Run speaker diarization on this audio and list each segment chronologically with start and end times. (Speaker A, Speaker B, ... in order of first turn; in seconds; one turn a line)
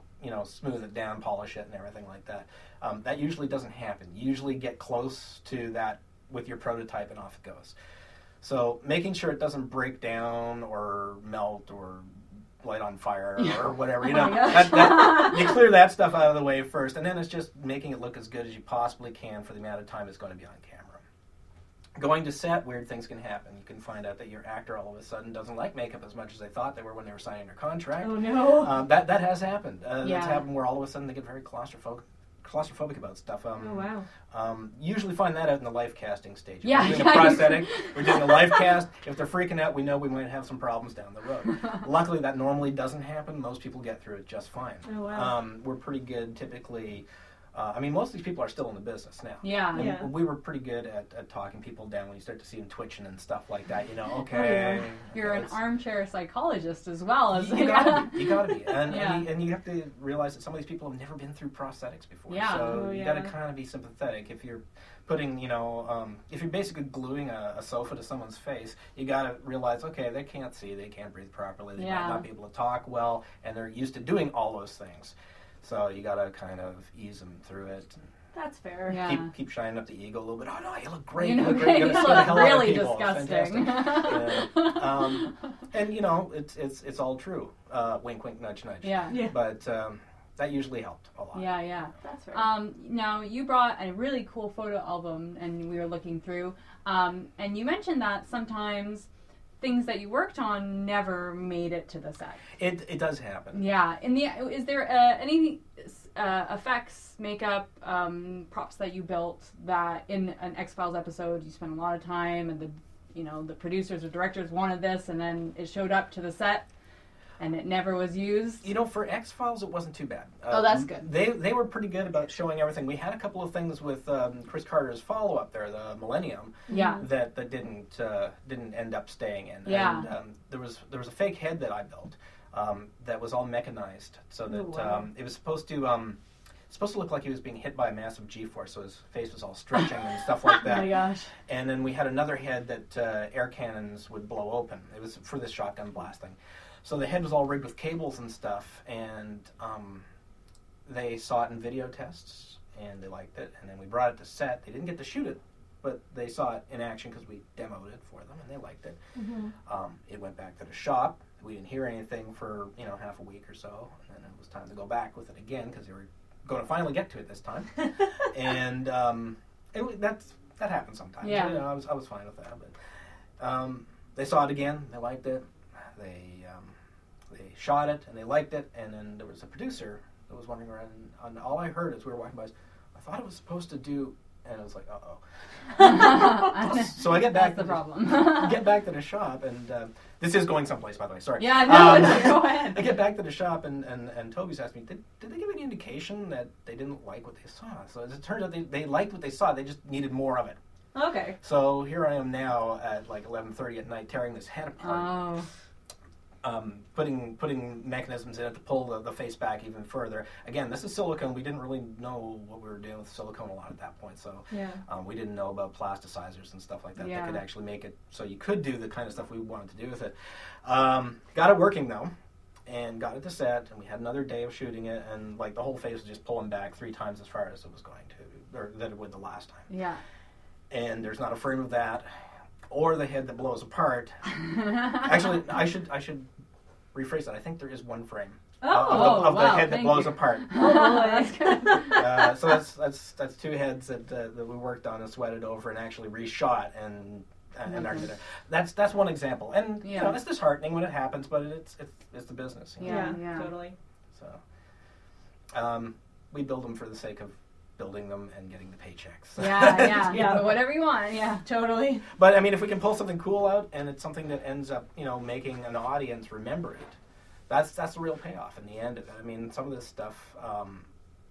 Speaker A: 0.2-7.7
Speaker A: 8.4-12.1
Speaker A: 12.6-21.0
Speaker B: 13.4-15.6
Speaker A: 21.9-55.5
Speaker C: 28.0-28.9
Speaker B: 30.0-30.4
Speaker C: 33.5-34.1
Speaker B: 36.6-38.7
Speaker C: 44.8-45.4
Speaker B: 49.4-50.0
Speaker C: 49.7-50.1
Speaker C: 54.3-55.0
Speaker B: 55.1-59.3
Speaker A: 57.3-78.0
Speaker B: 62.3-62.9
Speaker C: 62.6-63.3
Speaker B: 71.8-72.2
Speaker C: 78.3-79.0
Speaker B: 78.9-79.3
Speaker A: 79.0-91.6
Speaker B: 81.2-85.3
Speaker B: 88.8-89.2
Speaker C: 89.1-89.3
Speaker B: 91.3-99.1
Speaker C: 92.0-92.5
Speaker B: 99.6-102.4
Speaker A: 102.6-103.7
Speaker B: 103.5-116.7
Speaker B: 117.4-118.7
Speaker A: 118.6-150.0
Speaker B: 120.5-121.0
Speaker C: 126.7-127.0
Speaker B: 126.7-127.0
Speaker B: 129.6-130.1
Speaker C: 134.5-135.0
Speaker C: 140.6-141.3
Speaker A: 150.8-159.0
Speaker C: 159.2-159.5
Speaker A: 159.6-172.7
Speaker B: 171.2-171.7
Speaker A: 173.4-176.7
Speaker A: 177.3-185.2
Speaker A: 185.8-200.6
Speaker B: 185.8-188.7
Speaker B: 191.4-192.9
Speaker C: 200.9-201.4
Speaker A: 201.4-205.2
Speaker B: 204.8-205.5
Speaker A: 206.4-222.1
Speaker C: 214.5-214.8
Speaker B: 217.0-217.4
Speaker A: 222.7-229.7
Speaker B: 229.7-230.0
Speaker A: 230.7-232.1
Speaker A: 232.7-234.2
Speaker A: 234.7-236.3
Speaker A: 236.9-240.6
Speaker C: 238.6-239.4
Speaker B: 238.7-242.2
Speaker C: 240.5-241.9
Speaker A: 241.8-253.2
Speaker B: 247.7-248.1
Speaker B: 249.8-250.2
Speaker B: 252.8-253.5
Speaker C: 252.8-253.8
Speaker A: 254.1-254.4
Speaker A: 255.5-260.5
Speaker B: 259.4-261.4
Speaker C: 260.0-260.7
Speaker C: 261.4-262.1
Speaker A: 262.1-266.9
Speaker A: 267.5-270.9